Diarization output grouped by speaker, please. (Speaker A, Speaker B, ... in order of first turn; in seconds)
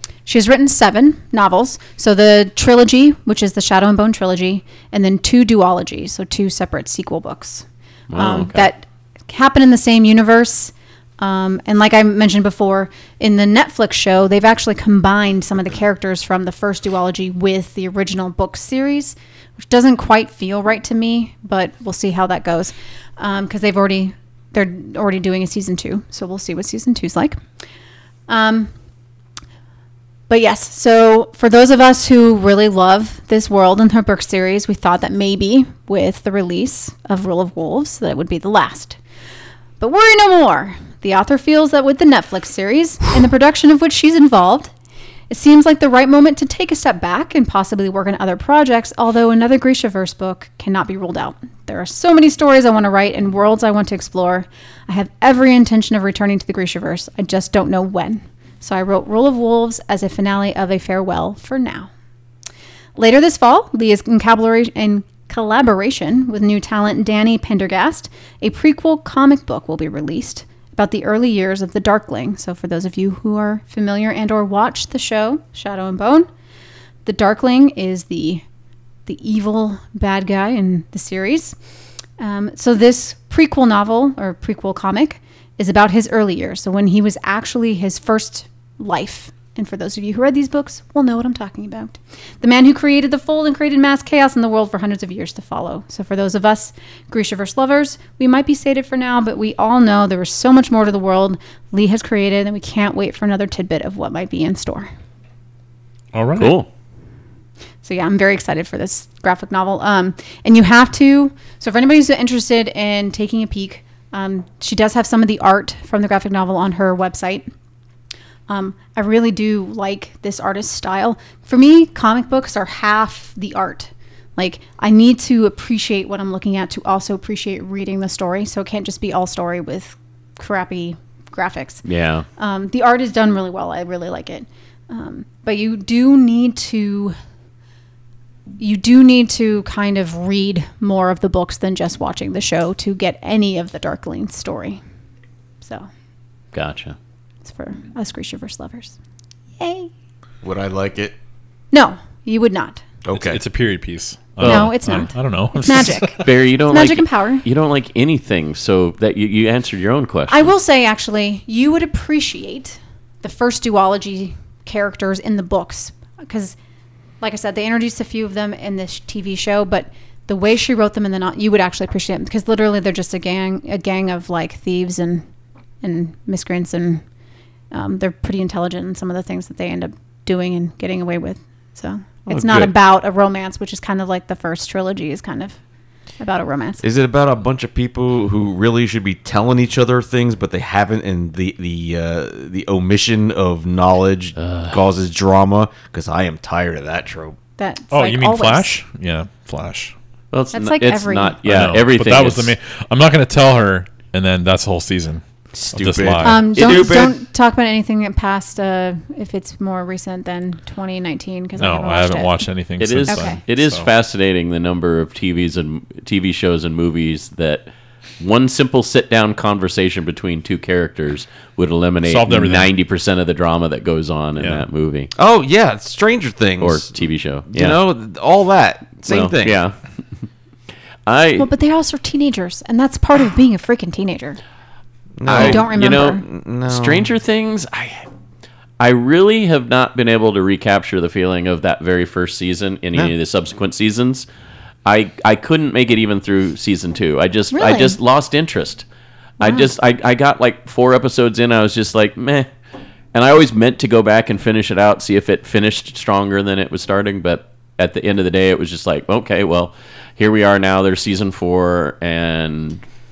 Speaker A: 0.3-27.4, 28.3-28.7, 30.3-39.0, 39.8-44.7, 45.3-61.9, 63.0-76.3, 77.0-78.4, 79.1-81.6, 82.2-104.9, 107.8-117.5, 118.5-131.8, 132.4-137.1, 138.6-144.8, 145.6-145.9, 147.5-149.0, 149.6-149.9, 151.7-152.8, 154.4-157.5, 160.3-166.6, 167.2-175.2, 175.8-177.0, 177.7-185.6, 186.2-186.8, 197.6-198.7, 200.5-201.4, 206.2-212.4, 213.1-213.4, 231.4-234.4, 235.3-236.2, 247.5-248.0, 249.4-249.7
Speaker B: 8.1-8.7, 106.4-106.7, 131.8-132.3, 146.5-147.0, 154.4-154.7, 156.2-160.5, 182.4-182.7, 194.4-194.8, 200.3-202.6, 206.6-206.9, 212.8-225.1, 226.6-227.8, 229.1-229.8, 231.1-231.5, 235.3-238.1, 238.8-244.3, 244.8-248.8, 249.4-252.5, 253.1-262.8
Speaker C: 106.1-106.5, 153.1-156.3, 197.9-199.9, 201.4-206.4, 211.6-213.9, 222.0-222.7, 224.4-224.7
Speaker D: 150.4-151.2, 153.0-153.4, 182.3-182.7, 186.8-197.4, 205.5-207.2, 225.2-226.9, 227.5-229.6, 235.2-237.1